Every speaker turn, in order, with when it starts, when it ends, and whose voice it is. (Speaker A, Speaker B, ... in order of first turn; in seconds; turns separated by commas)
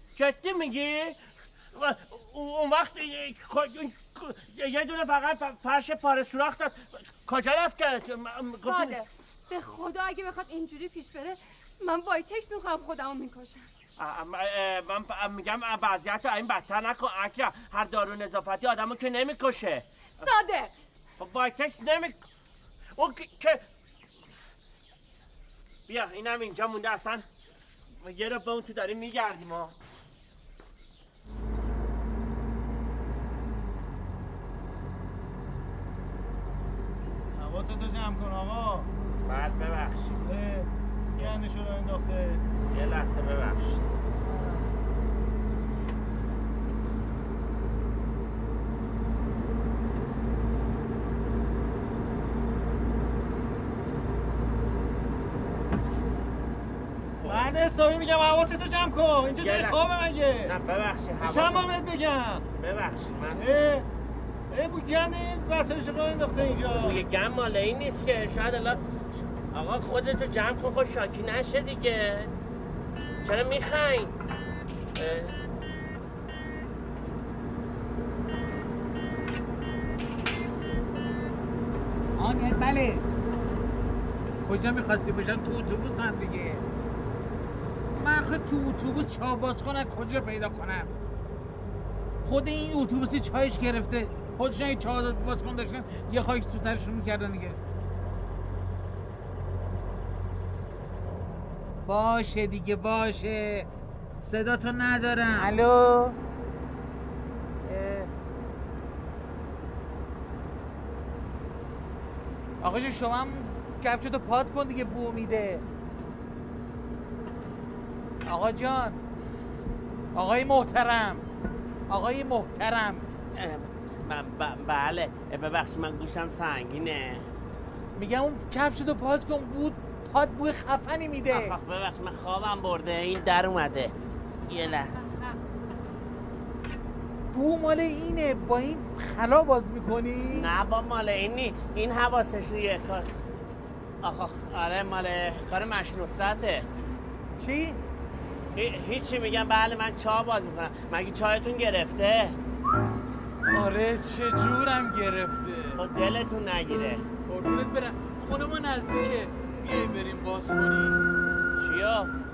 Speaker A: 0.1-1.2, Speaker A: 1.7-9.0, Speaker B: 8.6-13.7, Speaker A: 14.0-20.2, Speaker B: 20.2-20.7, Speaker A: 21.2-22.2, Speaker A: 22.9-23.6, Speaker A: 25.9-27.2, Speaker A: 28.0-29.7, Speaker C: 37.4-38.9, Speaker A: 39.2-40.1, Speaker C: 40.3-40.6, Speaker C: 41.2-42.4, Speaker A: 42.7-43.8, Speaker C: 57.5-60.4, Speaker A: 59.4-59.8, Speaker A: 60.4-61.7, Speaker C: 61.3-62.4, Speaker A: 62.6-63.5, Speaker C: 64.5-66.8, Speaker A: 66.7-68.8, Speaker A: 69.5-72.3, Speaker A: 73.2-74.1, Speaker A: 75.0-75.3, Speaker D: 82.2-83.0, Speaker D: 84.4-86.6, Speaker D: 88.0-90.9, Speaker D: 92.2-97.6, Speaker D: 101.9-103.7, Speaker D: 104.2-106.1, Speaker D: 107.6-108.1, Speaker D: 112.6-115.6, Speaker D: 118.3-119.0, Speaker D: 120.1-121.2, Speaker D: 121.9-123.0, Speaker A: 123.3-127.3, Speaker D: 128.0-131.5, Speaker A: 131.3-133.9, Speaker A: 134.5-135.2, Speaker D: 137.3-140.5, Speaker A: 140.3-143.1, Speaker A: 144.0-146.7, Speaker D: 147.4-147.8, Speaker A: 148.5-152.4, Speaker D: 153.5-155.7, Speaker A: 155.8-157.0, Speaker D: 157.3-160.9, Speaker A: 161.6-162.1